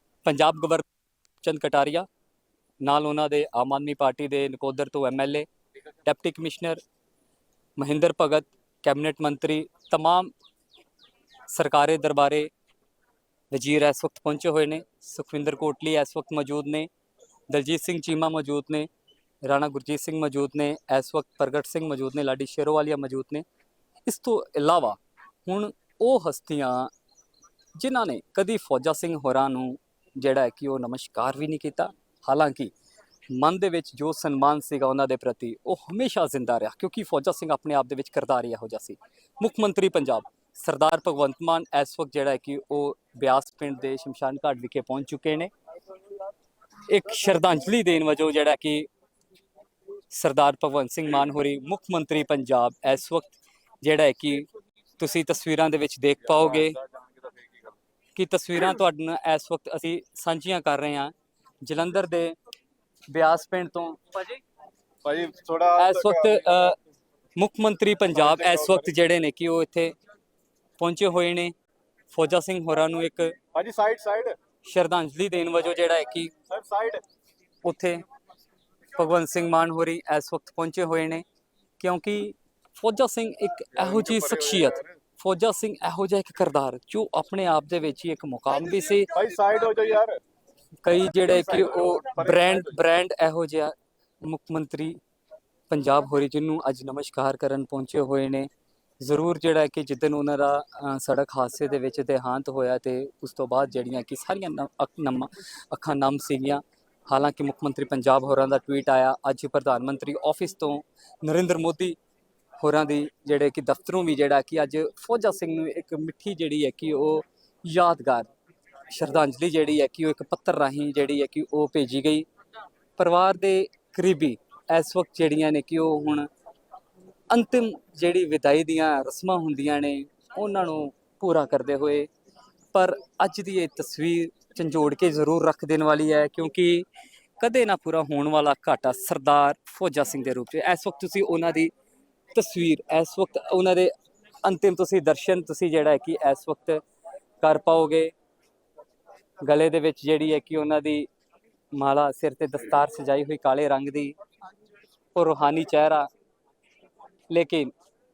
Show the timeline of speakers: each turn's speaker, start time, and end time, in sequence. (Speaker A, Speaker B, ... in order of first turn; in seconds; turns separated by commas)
Speaker A: 0.2-0.9, Speaker A: 1.4-2.1, Speaker A: 2.8-5.5, Speaker A: 6.0-6.8, Speaker A: 7.8-10.3, Speaker A: 11.5-12.5, Speaker A: 13.5-16.9, Speaker A: 17.5-18.9, Speaker A: 19.4-23.4, Speaker A: 24.1-26.9, Speaker A: 27.8-32.7, Speaker A: 33.3-45.5, Speaker A: 46.9-48.9, Speaker A: 50.1-54.5, Speaker A: 55.0-56.8, Speaker A: 58.1-62.4, Speaker A: 63.1-64.4, Speaker B: 65.0-66.5, Speaker A: 65.8-66.8, Speaker A: 67.4-70.0, Speaker B: 68.2-68.8, Speaker A: 70.8-71.5, Speaker A: 72.1-73.3, Speaker B: 73.5-74.4, Speaker A: 74.6-76.3, Speaker B: 76.5-77.0, Speaker A: 77.6-78.0, Speaker A: 78.9-81.2, Speaker A: 81.8-89.1, Speaker B: 84.0-84.8, Speaker B: 89.1-90.2, Speaker A: 90.8-95.0, Speaker B: 91.3-92.7, Speaker A: 95.7-98.5, Speaker A: 99.0-112.0, Speaker A: 112.6-118.3, Speaker A: 118.9-122.3, Speaker A: 123.0-126.3, Speaker A: 127.3-132.1, Speaker A: 132.7-136.9, Speaker A: 137.4-141.7, Speaker A: 142.3-143.9, Speaker A: 144.4-146.8, Speaker A: 147.4-148.1, Speaker A: 149.4-151.1, Speaker A: 151.7-154.2, Speaker A: 155.1-156.1, Speaker A: 157.3-157.7